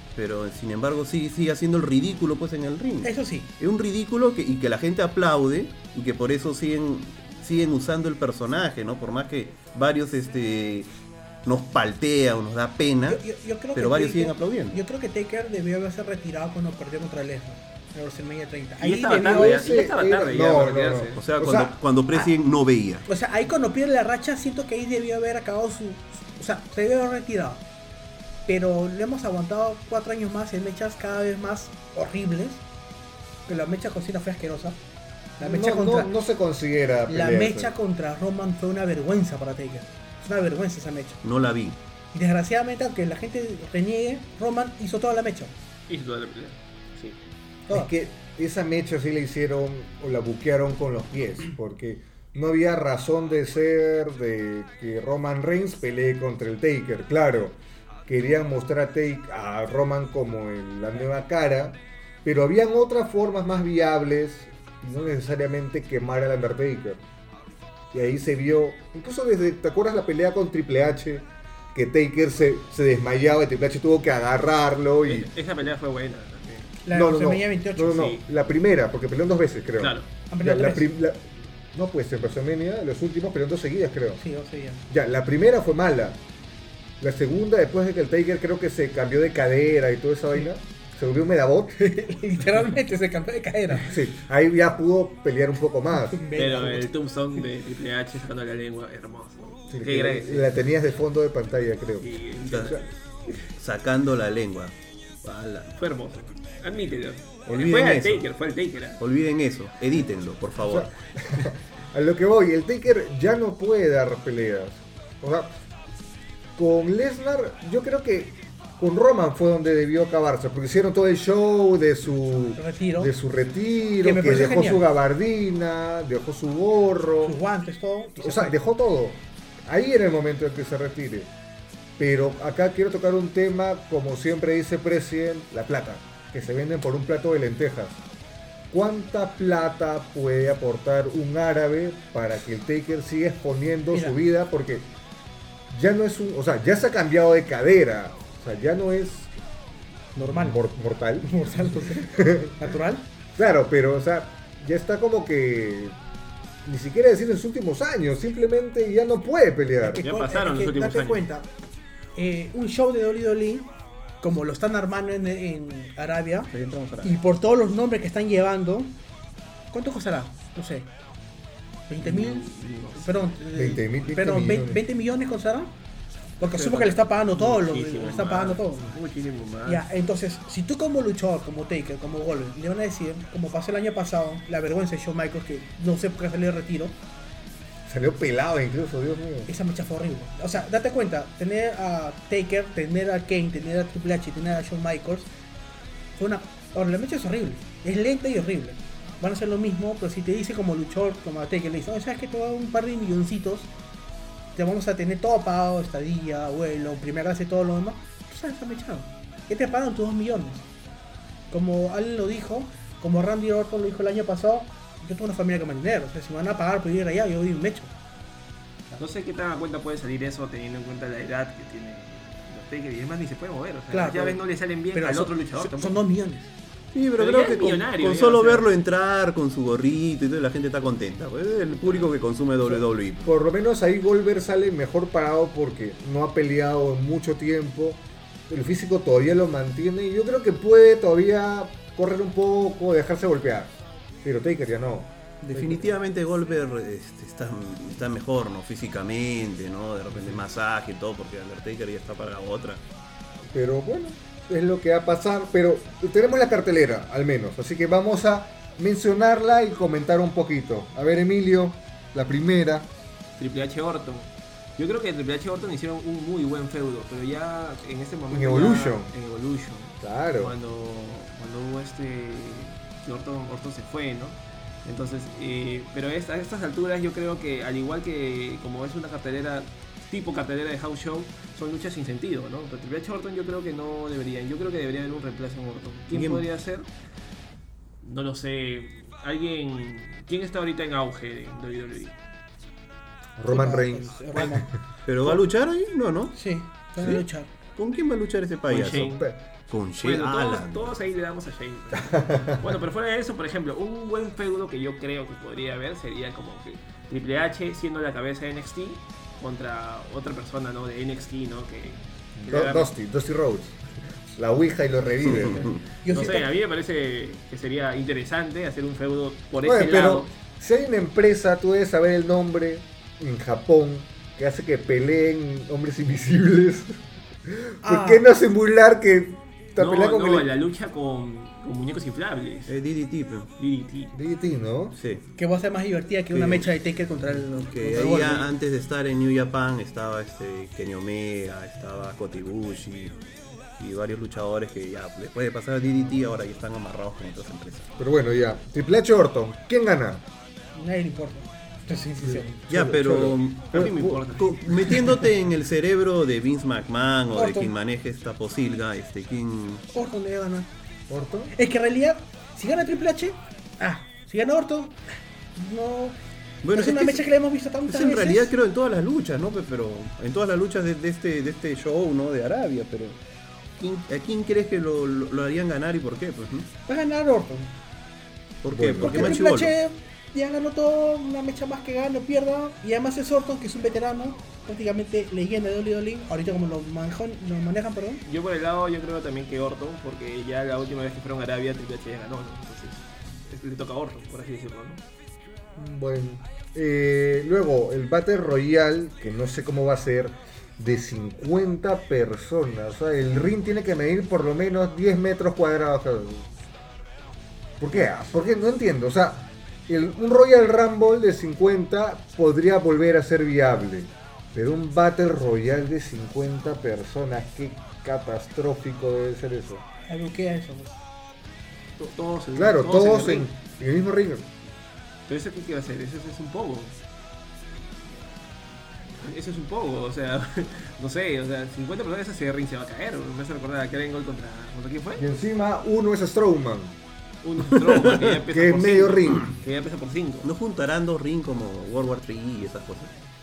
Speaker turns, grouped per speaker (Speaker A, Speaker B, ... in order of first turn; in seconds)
Speaker A: 0.1-10.9, 11.4-13.2, 13.7-14.8, 21.2-23.0, 41.2-41.8, 102.5-102.8, 103.4-105.7, 107.5-108.2, 109.0-110.9, 226.9-233.3, 245.5-252.8, 286.1-286.4, 295.1-296.4, 297.0-297.2, 297.8-300.9, 315.4-315.8, 332.7-333.5, 334.9-335.2, 336.3-336.6, 337.6-343.1, 343.8-347.9, 352.7-359.8, 366.6-367.2, 367.9-373.2, 373.8-376.7, 378.6-379.7, 437.9-438.3, 440.4-443.1
Speaker B: 3.0-3.5, 13.1-19.8, 23.1-27.6, 28.4-32.6, 33.5-34.8, 35.4-36.1, 37.1-41.2, 42.1-45.5, 76.8-78.2, 80.3-80.9, 84.2-84.8, 91.7-93.9, 96.1-96.9, 122.6-123.1, 124.0-124.9, 127.2-128.5, 143.9-144.2, 150.2-150.6, 151.2-153.1, 159.8-161.5, 162.1-163.7, 164.2-168.9, 169.7-170.9, 171.9-175.7, 176.4-178.9, 179.7-186.9, 189.5-195.3, 196.2-203.7, 204.5-210.7, 211.5-217.9, 223.9-224.4, 224.9-226.5, 293.5-294.7, 296.3-297.5, 316.0-316.5, 327.8-328.3, 335.4-338.5, 350.7-352.6, 357.3-357.7, 359.9-360.7, 361.5-365.0, 365.6-366.2, 366.7-368.5, 376.9-377.7, 379.0-388.2, 420.1-421.0
Speaker C: 18.8-21.2, 45.9-47.2, 75.0-76.8, 79.8-80.1, 96.3-100.5, 102.0-102.8, 105.7-109.0, 160.0-161.2, 166.5-167.2, 172.0-173.3, 176.4-179.8, 218.9-226.0, 227.2-228.7, 231.8-232.1, 263.4-286.9, 288.0-292.1, 298.7-299.2, 300.0-312.9, 316.1-320.3, 329.8-332.8, 333.6-334.1, 353.7-354.5, 388.2-395.0, 422.0-423.5, 425.3-426.9, 429.2-435.3, 437.4-440.5
Speaker D: 19.1-21.7, 35.4-37.7, 47.7-67.0, 67.9-75.3, 76.9-84.2, 84.9-86.2, 87.0-91.8, 93.8-96.2, 99.7-102.2, 110.6-115.5, 116.6-127.3, 128.2-131.3, 132.0-138.0, 138.7-144.9, 145.7-149.3, 150.2-152.6, 153.3-155.9, 156.6-160.0, 173.5-174.8, 187.8-189.5, 233.2-245.9, 253.5-262.9, 268.3-269.1, 270.0-270.5, 293.4-294.7, 299.1-299.4, 302.0-302.7, 312.4-315.8, 319.6-330.5, 334.1-334.9, 348.0-350.2, 352.2-354.2, 361.1-361.5, 378.7-379.4, 395.8-406.5, 407.8-419.8, 422.5-424.5, 435.2-436.9, 438.5-439.5